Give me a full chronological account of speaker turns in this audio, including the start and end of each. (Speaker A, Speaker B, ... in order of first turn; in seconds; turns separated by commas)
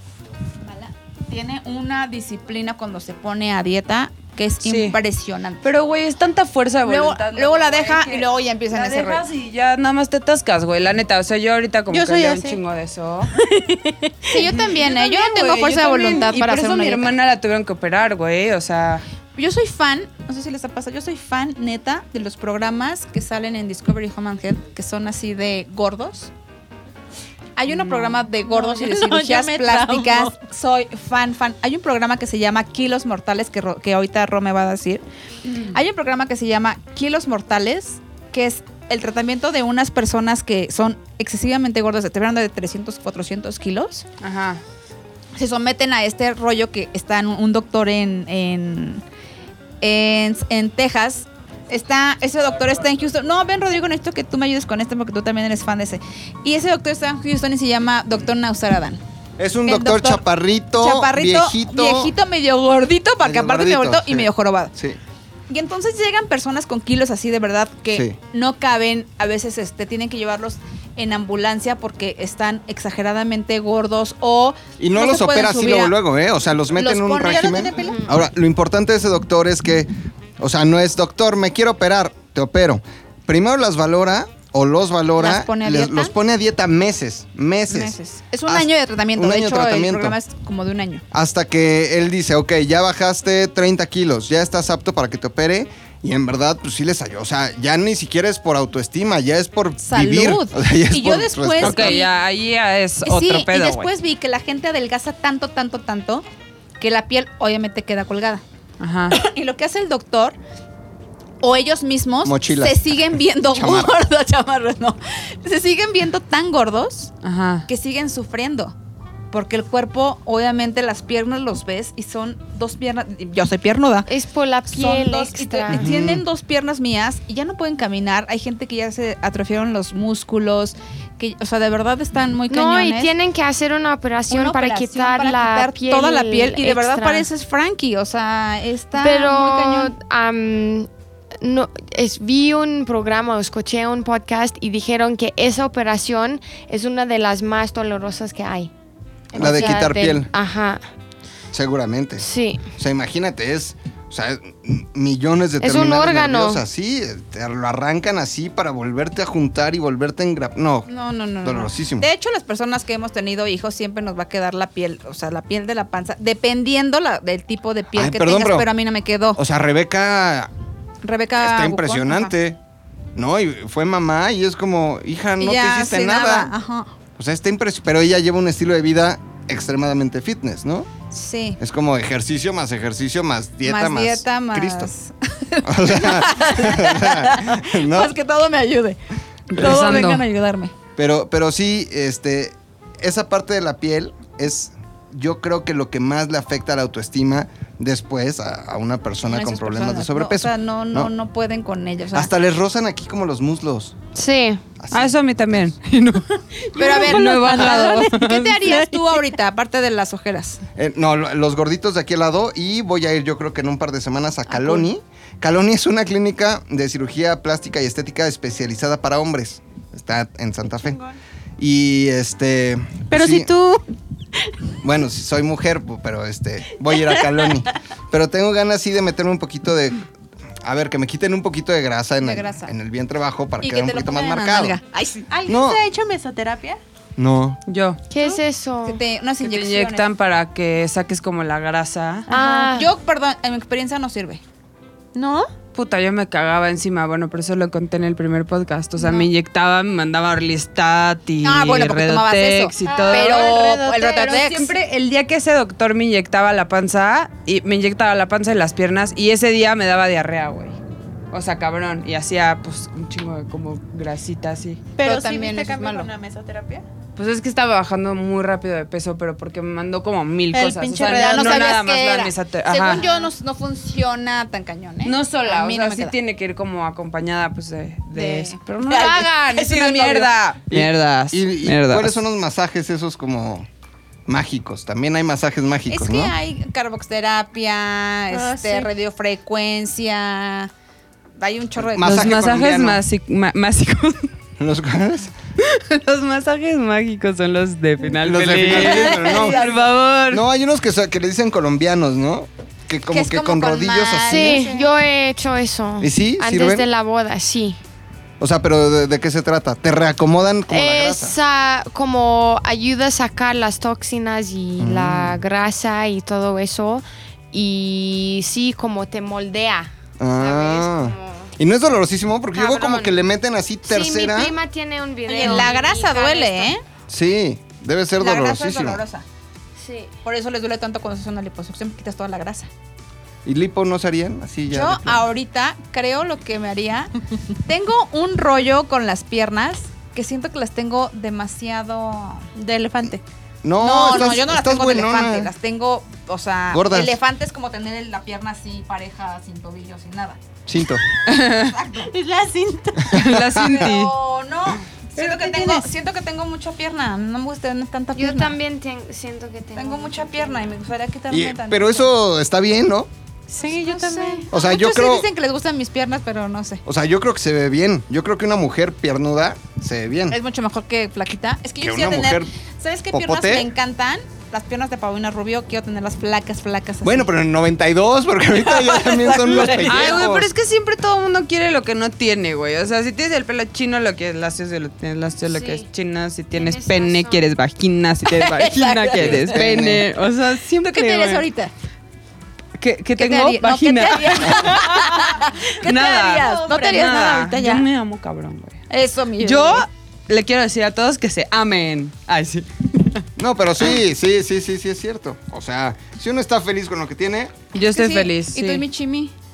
Speaker A: 0.6-5.6, Speaker B: 4.6-5.0, Speaker B: 5.6-13.3, Speaker A: 6.8-9.2, Speaker C: 11.9-12.6, Speaker C: 13.3-14.4, Speaker A: 14.3-17.1, Speaker B: 14.3-19.0, Speaker A: 19.3-26.3, Speaker A: 27.6-35.0, Speaker B: 27.7-28.2, Speaker C: 28.4-30.4, Speaker A: 35.5-44.0, Speaker B: 44.2-44.6, Speaker A: 45.3-49.0, Speaker A: 49.8-59.0, Speaker D: 59.4-62.1, Speaker A: 59.6-60.2, Speaker A: 60.8-64.7, Speaker D: 63.2-65.0, Speaker A: 65.5-75.9, Speaker D: 67.9-68.2, Speaker D: 74.8-90.2, Speaker A: 76.7-77.9, Speaker C: 77.2-78.0, Speaker A: 85.2-86.1, Speaker A: 87.7-91.0, Speaker D: 91.1-102.0, Speaker A: 99.8-102.1, Speaker B: 101.6-103.9, Speaker A: 103.0-106.2, Speaker A: 106.8-108.4, Speaker B: 108.8-109.2, Speaker A: 109.1-110.4, Speaker A: 111.4-117.1, Speaker D: 112.2-112.8, Speaker D: 113.5-113.9, Speaker B: 117.2-117.7, Speaker A: 117.7-118.8, Speaker A: 119.3-124.1, Speaker E: 124.1-125.9, Speaker A: 124.7-133.1, Speaker D: 125.7-126.2, Speaker E: 132.5-137.3, Speaker A: 134.3-139.9, Speaker E: 139.0-140.9, Speaker E: 141.4-148.7, Speaker E: 149.3-150.8, Speaker D: 149.3-150.3, Speaker D: 151.5-152.2, Speaker E: 152.2-152.7, Speaker D: 152.8-160.9, Speaker E: 155.6-156.6, Speaker A: 160.8-169.4, Speaker D: 161.4-162.1, Speaker D: 167.9-168.7, Speaker D: 169.3-170.5, Speaker A: 171.0-172.3, Speaker D: 171.4-172.6, Speaker D: 173.1-176.5, Speaker A: 175.4-176.9, Speaker D: 177.2-180.9, Speaker A: 181.1-181.6, Speaker D: 181.6-184.9, Speaker A: 183.7-189.0, Speaker D: 185.6-188.1, Speaker B: 189.5-190.2, Speaker A: 189.5-190.7, Speaker D: 191.0-201.1, Speaker A: 199.2-202.3, Speaker D: 202.1-203.9, Speaker E: 204.1-204.6, Speaker D: 204.8-205.7, Speaker B: 204.9-206.3, Speaker C: 206.6-209.2, Speaker A: 206.7-210.6, Speaker B: 206.8-208.6, Speaker D: 210.8-221.0, Speaker C: 220.8-221.2, Speaker D: 221.6-223.5, Speaker C: 223.1-223.8, Speaker D: 224.8-230.0, Speaker C: 226.9-227.7, Speaker D: 230.6-234.8, Speaker A: 232.2-232.7, Speaker A: 233.6-235.3, Speaker C: 235.3-236.8, Speaker D: 235.5-235.8, Speaker D: 237.2-237.6, Speaker B: 237.7-238.0, Speaker E: 238.1-239.0, Speaker A: 238.2-240.1, Speaker B: 239.4-242.3, Speaker C: 242.3-242.8, Speaker E: 242.3-242.9, Speaker A: 242.8-244.4, Speaker C: 245.1-245.5, Speaker B: 245.7-260.8, Speaker A: 251.4-254.7, Speaker C: 252.9-254.3, Speaker B: 261.3-264.8, Speaker C: 264.9-266.8, Speaker A: 265.0-266.1, Speaker B: 267.1-273.1, Speaker C: 270.5-271.7, Speaker A: 271.1-276.1, Speaker B: 275.0-282.2, Speaker A: 278.1-280.3, Speaker D: 280.7-283.7, Speaker D: 284.3-286.3, Speaker A: 285.9-290.7, Speaker C: 288.3-288.9, Speaker A: 291.4-292.3, Speaker D: 291.8-293.0, Speaker B: 292.0-294.3, Speaker D: 294.6-295.3, Speaker B: 295.6-300.4, Speaker D: 298.2-299.6, Speaker A: 298.7-299.9, Speaker D: 300.3-304.6, Speaker A: 303.1-304.9, Speaker E: 304.3-307.8, Speaker D: 306.0-306.8, Speaker D: 308.4-311.4, Speaker E: 310.7-321.5, Speaker D: 314.8-315.4, Speaker D: 320.2-324.5, Speaker E: 322.5-323.2, Speaker E: 323.9-326.7, Speaker A: 325.3-326.8, Speaker D: 327.1-329.0, Speaker A: 328.2-329.2, Speaker E: 329.8-330.1, Speaker A: 330.2-332.7, Speaker D: 333.4-335.2, Speaker A: 334.7-337.1, Speaker A: 337.7-342.5, Speaker C: 342.5-343.2, Speaker D: 343.6-345.5, Speaker A: 343.8-350.4, Speaker D: 346.7-347.2, Speaker D: 350.7-351.0, Speaker B: 351.3-351.7, Speaker A: 351.4-352.1, Speaker C: 352.1-353.3, Speaker B: 353.1-354.1, Speaker D: 353.1-353.7, Speaker A: 353.5-358.6, Speaker C: 355.2-355.9, Speaker E: 358.1-360.7, Speaker A: 359.8-362.1, Speaker D: 361.3-363.1, Speaker C: 363.5-364.5, Speaker A: 363.6-366.8, Speaker D: 364.5-365.3, Speaker D: 366.8-370.4, Speaker A: 370.3-377.3, Speaker D: 371.8-372.5, Speaker D: 373.1-373.7, Speaker D: 377.0-380.5, Speaker C: 378.6-380.2, Speaker B: 379.8-391.4, Speaker E: 385.5-385.9, Speaker E: 386.5-387.5, Speaker A: 388.6-389.8, Speaker D: 389.1-390.1, Speaker A: 390.8-391.7, Speaker B: 392.8-394.8, Speaker A: 393.2-397.9, Speaker C: 394.4-395.2, Speaker B: 395.8-398.8, Speaker C: 396.3-397.4, Speaker A: 398.9-399.9, Speaker B: 399.4-403.2, Speaker D: 403.4-407.5, Speaker B: 407.7-408.8, Speaker A: 407.7-409.3